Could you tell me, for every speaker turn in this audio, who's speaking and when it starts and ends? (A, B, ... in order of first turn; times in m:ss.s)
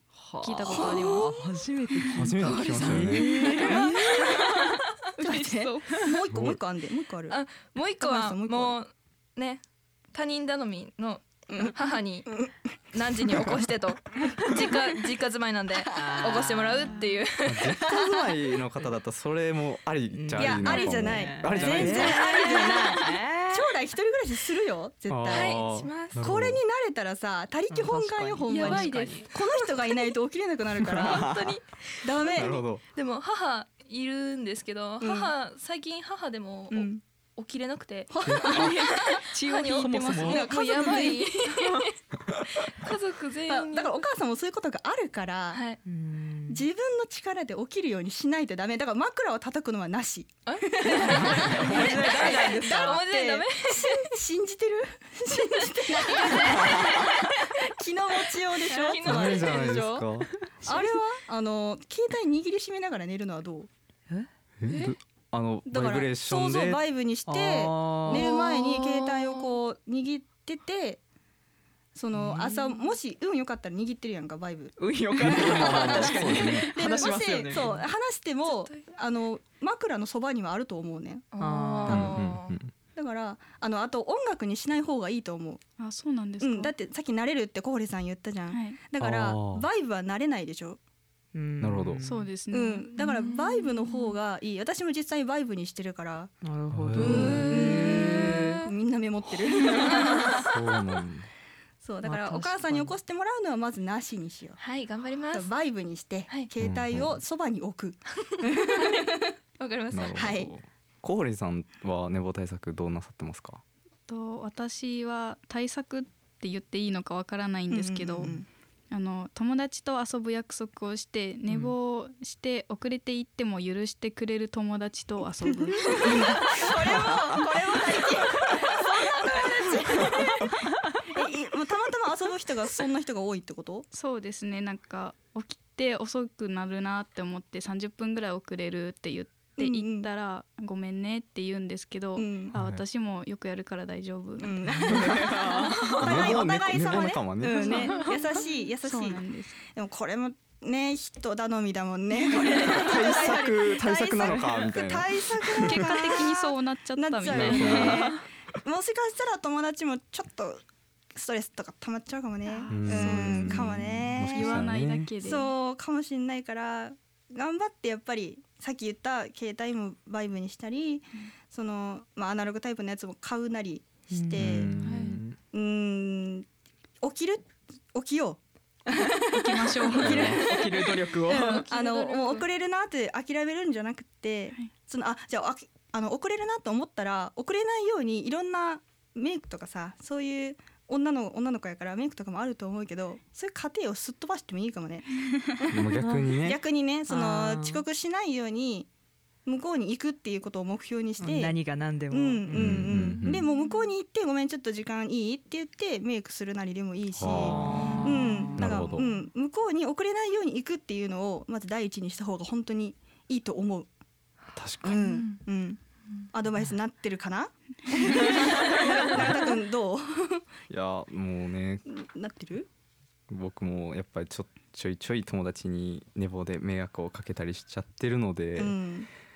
0:00.2-0:04.6 A
0:00.4-0:01.6 B
0:00.8-0:01.1 C
0:02.1-0:03.3 D
0:02.4-0:06.1 E
0:03.4-0:04.6 C
0:05.2-0:07.4 C
0:06.3-0:06.6 D
0:07.3-0:17.8 E
0:08.0-0:08.8 C
0:11.5-0:11.8 C
0:15.7-0:16.5 C
0:15.9-0:17.0 A
0:17.4-0:22.2 D
0:17.7-0:18.4 C
0:20.1-0:23.7 A
0:20.4-0:25.7 C
0:21.8-0:23.0 E
0:25.1-0:26.6 D
0:25.3-0:26.2 E
0:26.2-0:31.4 C
0:27.7-0:29.3 A
0:28.5-0:30.1 E
0:30.9-0:42.0 E
0:30.9-0:31.4 A
0:32.0-0:32.6 C
0:32.3-0:32.8 D
0:35.0-0:35.3 C
0:36.7-0:37.0 C
0:38.1-0:41.3 C
0:38.2-0:38.7 D
0:40.1-0:40.4 A
0:42.5-0:44.0 E
0:43.5-0:45.6 C
0:45.5-0:45.8 E
0:45.8-0:46.7 A
0:46.5-1:00.0 C
0:50.4-0:54.2 E
0:51.0-0:53.0 A
0:51.2-0:52.0 D
0:55.8-0:57.7 E
0:56.4-0:57.2 D
0:58.6-1:00.1 E
0:59.0-1:00.3 D
1:00.6-1:00.9 A
1:00.6-1:03.7 C
1:04.6-1:06.8 D
1:04.7-1:04.9 E
1:05.6-1:11.0 C
1:07.2-1:08.3 A
1:08.1-1:09.6 E
1:11.9-1:21.3 C
1:12.2-1:12.5 A
1:14.8-1:17.8 A
1:15.2-1:16.7 D
1:18.4-1:18.9 E
1:21.3-1:22.6 E
1:21.4-1:22.1 A
1:21.8-1:22.2 C
1:21.9-1:22.7 D
1:22.9-1:25.6 C
1:25.8-1:26.7 B
1:26.4-1:30.8 C
1:28.5-1:28.8 B
1:29.0-1:29.7 D
1:31.3-1:32.3 A
1:31.6-1:32.0 D
1:32.0-1:33.3 B
1:32.5-1:36.3 C
1:33.0-1:34.1 E
1:36.4-1:38.6 A
1:36.7-1:37.8 D
1:37.0-1:38.7 E
1:37.0-1:40.5 C
1:39.8-1:40.2 E
1:40.4-1:41.3 D
1:41.8-1:44.6 C
1:42.0-1:42.9 A
1:44.6-1:45.5 E
1:45.3-1:49.3 C
1:46.6-1:47.2 D
1:48.2-1:50.5 E
1:49.9-1:53.6 D
1:50.2-1:50.5 C
1:54.1-1:58.4 B
1:57.7-1:58.5 C
1:58.9-2:06.6 B
2:01.5-2:01.7 A
2:05.4-2:13.9 C
2:13.9-2:25.3 B
2:19.6-2:20.1 C
2:22.2-2:22.6 C
2:22.5-2:22.8 D
2:24.4-2:40.6 C
2:24.8-2:27.8 D
2:27.6-2:28.2 B
2:28.8-2:29.6 B
2:32.5-2:36.1 D
2:35.6-2:37.9 B
2:37.2-2:38.2 D
2:41.1-2:44.7 C
2:42.7-2:45.1 D
2:42.7-2:45.5 B
2:45.2-2:54.8 C
2:54.1-2:54.6 A
2:54.4-2:55.4 D
2:54.8-2:55.2 E
2:55.5-2:56.4 C
2:57.0-2:58.4 C
2:58.9-2:59.1 A
2:58.9-3:18.9 C
2:59.3-3:00.2 B
2:59.9-3:00.4 D
3:00.0-3:01.7 A
3:01.7-3:02.4 E
3:15.7-3:16.6 D
3:16.0-3:16.2 A
3:17.1-3:17.8 A
3:19.4-3:21.6 C
3:21.2-3:23.1 A
3:22.1-3:33.9 C
3:22.5-3:23.5 D
3:27.1-3:27.7 D
3:27.2-3:29.0 A
3:28.6-3:29.1 D
3:34.6-3:35.0 D
3:34.8-3:35.8 C
3:36.3-3:40.4 C
3:40.7-3:41.8 D
3:41.9-3:42.7 C
3:43.3-3:48.8 D
3:48.6-3:49.1 C